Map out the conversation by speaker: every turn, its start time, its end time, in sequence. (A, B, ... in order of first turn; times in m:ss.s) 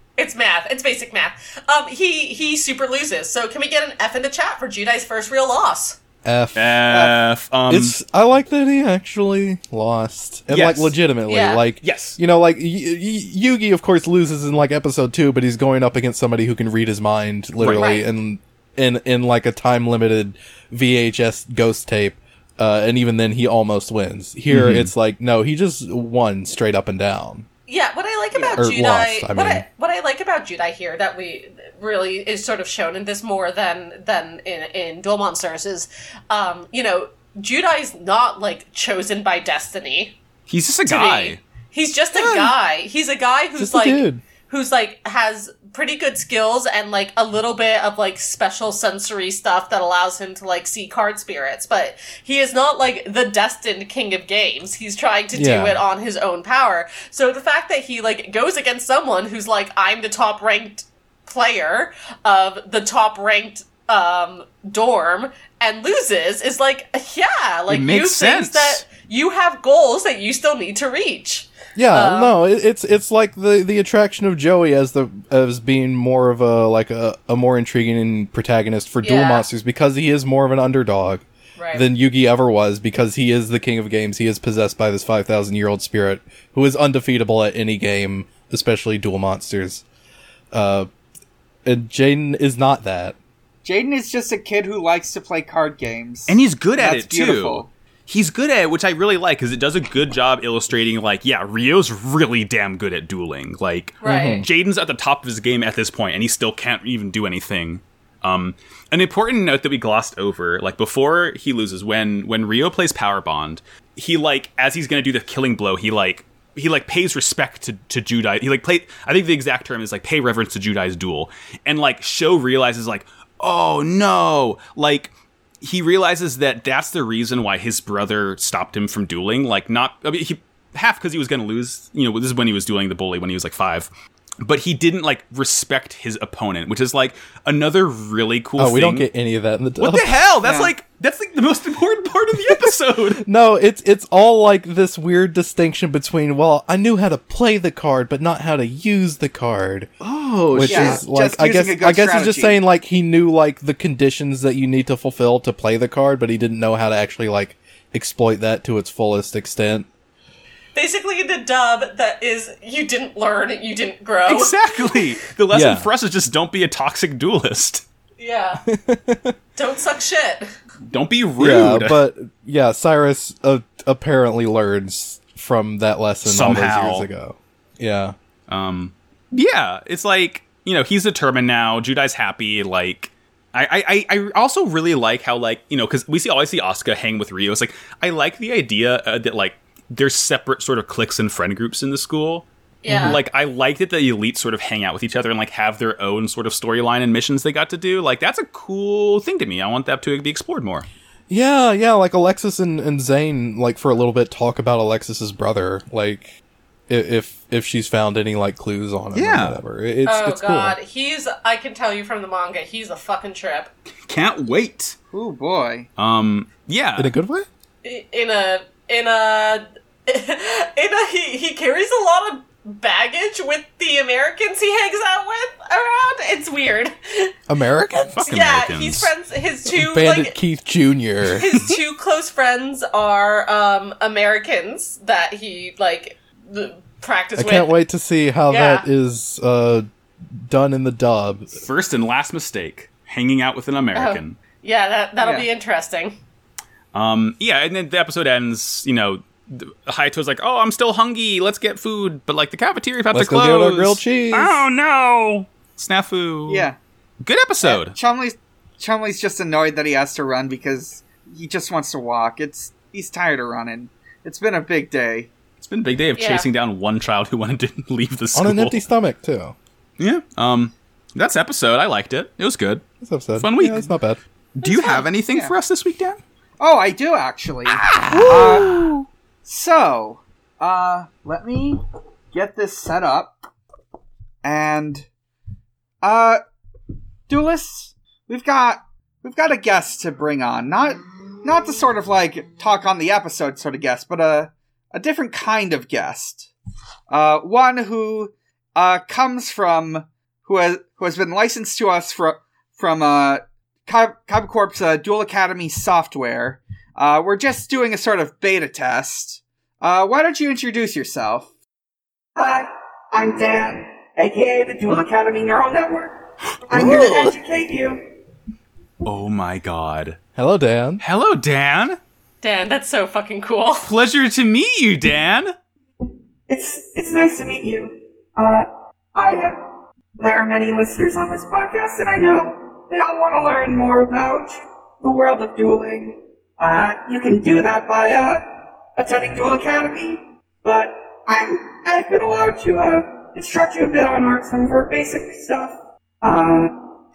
0:00.2-0:06.0 A
0:06.2-0:06.8 B
0:06.5-0:08.0 C
0:06.9-0:07.1 D
0:07.7-0:27.4 B
0:10.5-0:10.9 C
0:11.3-0:11.6 A
0:11.8-0:12.2 C
0:17.6-0:17.9 C
0:17.7-0:18.0 A
0:24.5-0:24.9 C
0:27.7-0:40.2 A
0:28.3-0:28.6 D
0:28.6-0:29.6 B
0:40.5-0:41.4 C
0:40.8-1:12.3 A
0:42.1-0:42.5 B
0:43.6-0:44.2 B
0:55.3-0:55.8 B
1:07.7-1:08.8 C
1:11.8-1:29.8 B
1:19.0-1:19.5 A
1:21.6-1:21.8 A
1:30.5-1:30.9 B
1:31.6-1:33.1 B
1:33.6-1:37.7 D
1:36.3-2:13.9 C
1:44.0-1:44.4 A
1:44.0-1:44.5 B
2:14.4-2:19.1 C
2:18.6-2:20.2 B
2:19.8-2:23.2 C
2:20.4-2:20.7 D
2:22.5-2:29.9 B
2:30.0-2:31.0 C
2:30.5-2:39.9 B
2:30.6-2:32.6 D
2:40.7-2:44.6 A
2:44.2-2:47.8 C
2:45.5-2:45.9 B
2:48.2-2:48.6 A
2:48.6-2:49.3 B
2:49.6-2:50.5 A
2:50.9-2:52.0 C
2:51.4-2:58.1 B
2:56.2-2:57.1 C
2:58.5-3:20.8 C
3:12.8-3:13.2 A
3:12.9-3:13.2 B
3:21.3-3:26.3 B
3:26.9-3:30.8 B
3:29.1-3:29.6 C
3:30.0-3:33.7 A
3:34.1-3:35.0 C
3:35.1-3:35.9 D
3:36.0-3:37.1 C
3:37.0-3:37.5 B
3:37.8-3:47.3 A
3:47.5-3:48.2 B
3:48.1-3:49.1 C
3:48.1-3:50.4 A
3:49.7-3:51.5 B
3:51.4-3:57.7 A
3:57.4-3:59.8 B
3:58.5-3:58.8 A
4:00.4-4:01.6 B
4:01.6-4:04.4 C
4:03.9-4:06.2 A
4:05.2-4:05.5 D
4:06.9-4:16.7 C
4:13.1-4:14.6 B
4:16.5-4:16.8 D
4:17.2-4:18.0 C
4:17.6-4:25.3 D
4:25.6-4:28.8 C
4:26.2-4:26.4 A
4:28.3-4:29.5 B
4:30.0-4:32.8 C
4:33.0-4:34.2 B
4:33.4-4:33.9 C
4:34.6-4:36.2 C
4:34.6-4:35.0 A
4:36.6-4:38.9 D
4:37.7-4:39.0 C
4:39.4-4:43.4 D
4:44.4-4:45.1 D
4:46.0-4:46.4 D
4:47.3-4:56.5 D
4:57.1-5:11.5 D
5:12.4-5:18.0 E
5:16.7-5:17.1 C
5:16.7-5:17.2 B
5:19.0-5:20.2 C
5:20.4-5:21.0 B
5:21.0-5:22.0 C
5:22.4-5:23.9 A
5:23.8-5:25.5 C
5:26.5-5:29.6 E
5:30.2-5:38.4 E
5:39.0-5:46.8 E